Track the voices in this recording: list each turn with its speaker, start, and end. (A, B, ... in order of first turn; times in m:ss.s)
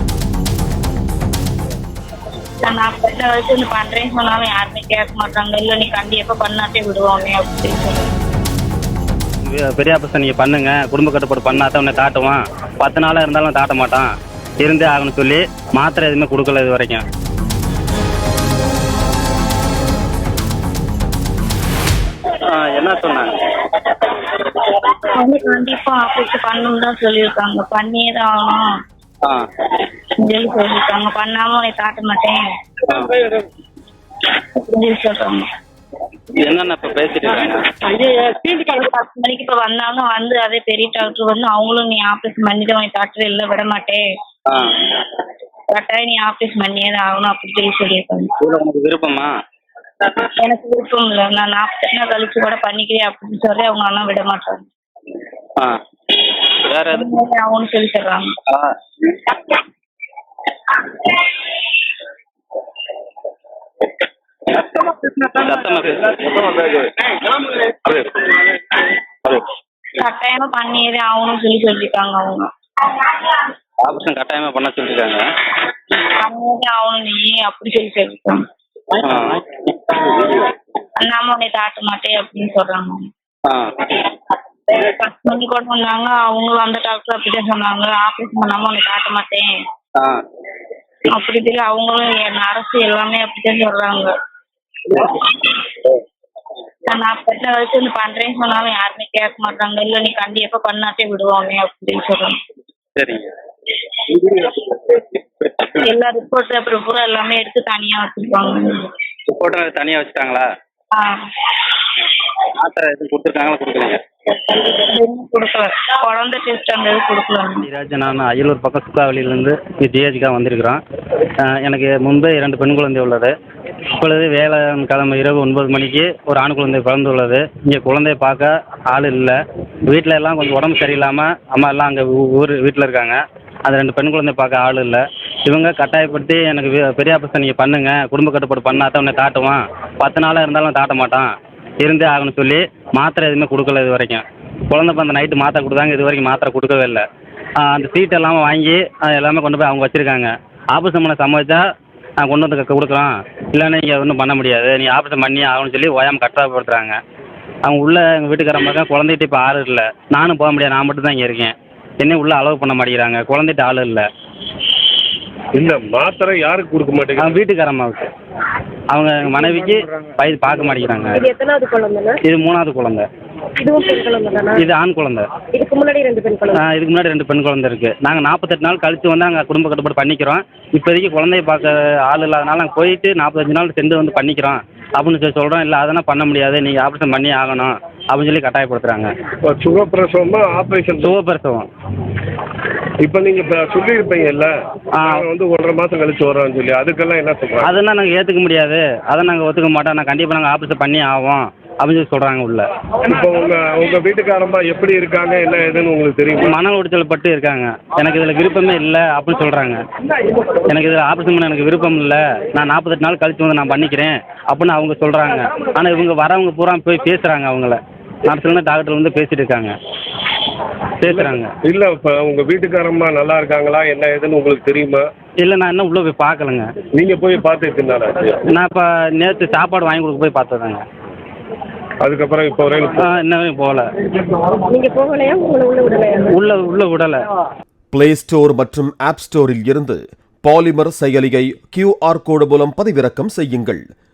0:02.6-0:08.1 A
0:09.4-0:17.0 B
0:22.4-0:23.4 B
0:25.0-0:28.6 A
0:30.2-0:32.4 A
0:32.9-0:33.4 B
0:34.4-0:35.5 A
0:36.3-0:37.8 B
0:38.2-0:44.0 A
0:45.7-0:48.3 A
0:48.4-0:49.3 B
0:50.3-0:54.6 A
0:56.5-0:57.1 B
0:56.9-0:58.3 A
0:58.5-0:59.4 B
1:04.6-1:08.5 B
1:09.9-1:12.5 A
1:13.1-1:13.3 A
1:13.8-1:15.2 B
1:16.2-1:18.4 A
1:19.0-1:20.5 B
1:21.0-1:23.0 A
1:23.5-1:24.1 B
1:24.7-1:29.5 A
1:31.1-1:34.1 A
1:35.0-1:35.5 A
1:36.9-1:42.4 A
1:43.0-1:43.3 B
1:43.9-1:45.8 B
1:45.8-1:48.9 A
1:49.3-1:50.4 B
1:50.9-1:51.2 A
1:52.3-1:54.0 B
1:54.5-1:57.7 A
1:57.6-2:00.8 B
2:01.4-2:03.3 B
2:03.9-2:27.0 B
2:27.6-2:31.7 B
2:32.2-2:37.0 B
2:37.6-2:44.0 B
2:45.5-2:47.4 C
2:47.2-2:48.1 B
2:48.9-2:51.3 B
2:51.1-2:52.2 D
2:52.2-2:53.0 B
2:53.6-2:54.6 D
2:54.5-2:55.2 B
2:55.5-2:56.6 D
2:56.5-3:09.1 B
3:09.4-3:11.1 C
3:11.0-3:11.7 B
3:13.0-3:17.7 C
3:15.0-3:15.2 B
3:17.6-3:22.6 B
3:23.0-3:26.5 C
3:26.4-3:29.8 B
3:30.5-3:39.7 B
3:41.0-3:41.5 B
3:41.0-3:45.0 C
3:45.4-3:46.7 B
3:46.9-3:48.4 C
3:48.5-3:50.8 B
3:52.0-3:53.0 C
3:53.0-3:53.8 B
3:54.7-3:56.4 D
3:56.3-3:57.2 B
3:57.9-4:03.8 E